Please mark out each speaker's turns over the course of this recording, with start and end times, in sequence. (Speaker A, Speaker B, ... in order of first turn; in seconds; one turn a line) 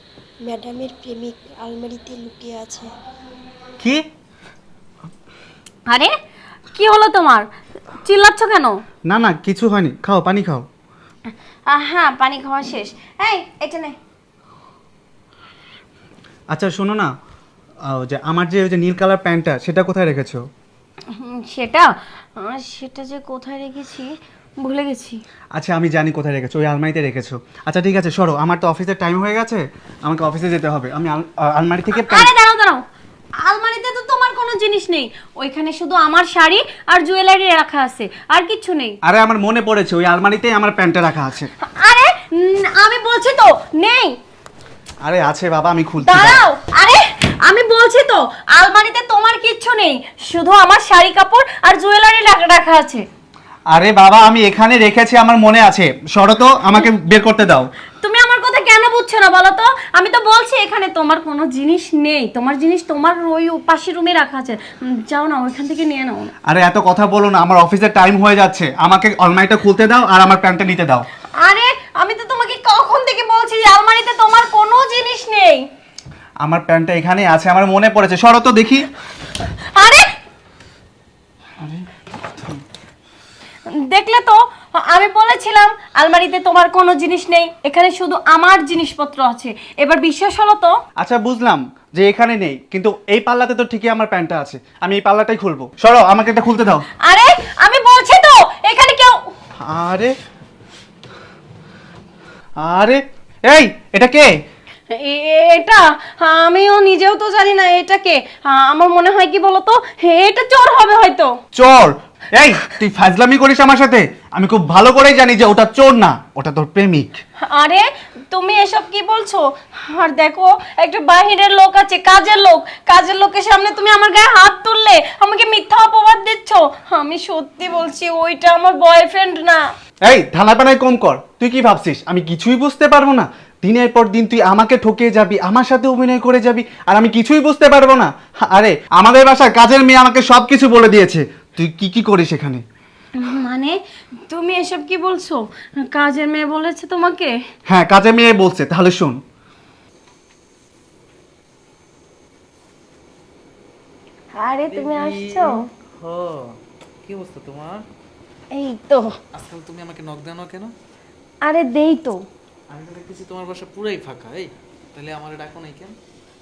Speaker A: 0.5-2.9
Speaker B: 5.9-6.1
Speaker B: 6.7-8.8
Speaker C: 9.1-10.7
Speaker B: 11.7-14.0
Speaker C: 16.5-17.1
Speaker C: 17.9-20.4
Speaker B: 21.1-25.2
Speaker C: 25.5-32.3
Speaker B: 31.9-32.8
Speaker B: 33.4-39.0
Speaker C: 39.0-41.5
Speaker B: 41.6-44.2
Speaker C: 45.0-46.5
Speaker B: 46.0-53.0
Speaker C: 53.7-57.7
Speaker B: 58.0-66.3
Speaker C: 66.4-71.1
Speaker B: 71.3-75.7
Speaker C: 76.4-78.9
Speaker B: 79.4-80.2
Speaker C: 81.6-81.8
Speaker B: 83.7-90.8
Speaker C: 91.0-96.8
Speaker B: 97.0-99.3
Speaker C: 99.6-100.1
Speaker C: 102.6-104.3
Speaker B: 104.9-111.4
Speaker C: 111.5-117.2
Speaker B: 117.4-129.7
Speaker C: 130.0-142.6
Speaker B: 143.2-147.4
Speaker C: 147.7-149.2
Speaker B: 154.3-155.7
Speaker D: 154.7-157.8
Speaker B: 158.5-159.1
Speaker D: 159.3-160.7
Speaker B: 161.4-162.2
Speaker D: 162.7-165.9